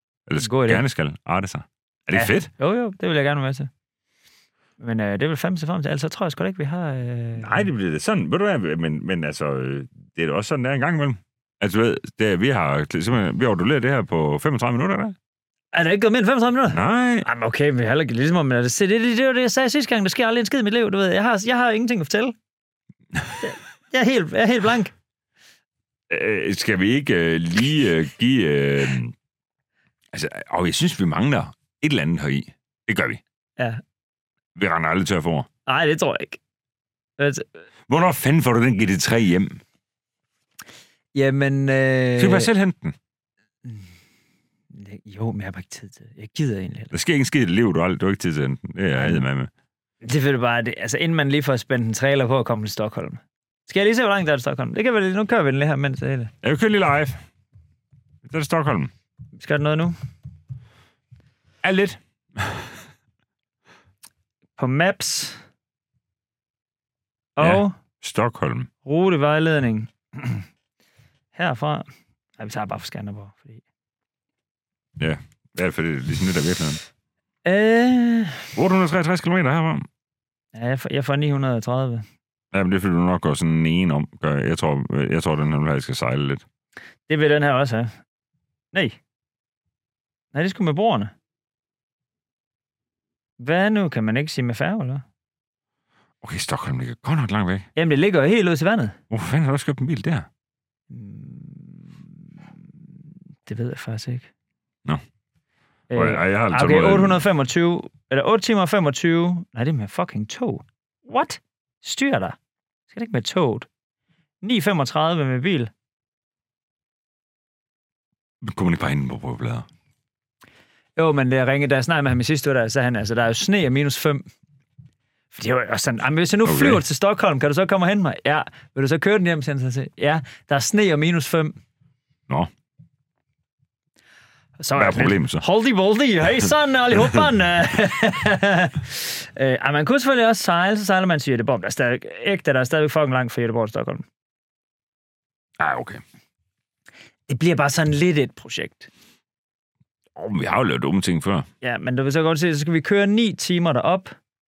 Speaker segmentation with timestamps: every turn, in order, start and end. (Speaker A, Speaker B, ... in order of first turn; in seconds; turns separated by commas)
Speaker A: 0.3-2.5, Speaker B: 0.4-0.8, Speaker B: 2.1-3.7, Speaker B: 4.8-7.7, Speaker A: 7.4-15.2, Speaker B: 15.7-22.3, Speaker A: 16.7-17.2, Speaker B: 23.4-24.9, Speaker A: 26.1-29.1, Speaker A: 30.1-33.2, Speaker A: 34.5-35.5, Speaker B: 35.7-36.4, Speaker B: 37.2-37.5, Speaker A: 37.9-39.6, Speaker B: 41.1-42.5, Speaker A: 42.2-42.9, Speaker B: 44.7-46.9, Speaker A: 46.9-49.5, Speaker B: 49.0-49.2, Speaker B: 50.0-56.3, Speaker A: 56.4-57.2, Speaker A: 58.2-58.9, Speaker B: 59.4-60.0, Speaker A: 61.6-62.7, Speaker B: 64.6-65.4, Speaker B: 67.4-67.7, Speaker A: 67.4-68.7, Speaker B: 68.8-70.5, Speaker B: 71.3-71.8, Speaker B: 72.4-73.6, Speaker A: 75.0-76.8, Speaker B: 77.4-78.5, Speaker A: 78.5-79.9, Speaker B: 80.5-82.0, Speaker A: 82.5-86.4, Speaker B: 87.1-87.9, Speaker B: 90.3-91.1, Speaker B: 93.4-95.0, Speaker A: 96.2-97.7, Speaker B: 97.8-99.0, Speaker A: 99.1-100.3, Speaker B: 100.9-102.1, Speaker B: 103.4-104.3, Speaker B: 105.9-112.3, Speaker A: 105.9-107.2, Speaker B: 112.9-113.7, Speaker B: 114.4-115.7, Speaker A: 118.4-119.7, Speaker B: 121.0-124.2, Speaker B: 125.3-131.5, Speaker A: 126.4-126.8, Speaker B: 134.6-144.0, Speaker A: 134.7-135.4, Speaker A: 145.6-146.0, Speaker B: 147.3-148.9, Speaker A: 150.2-151.5, Speaker B: 151.6-154.2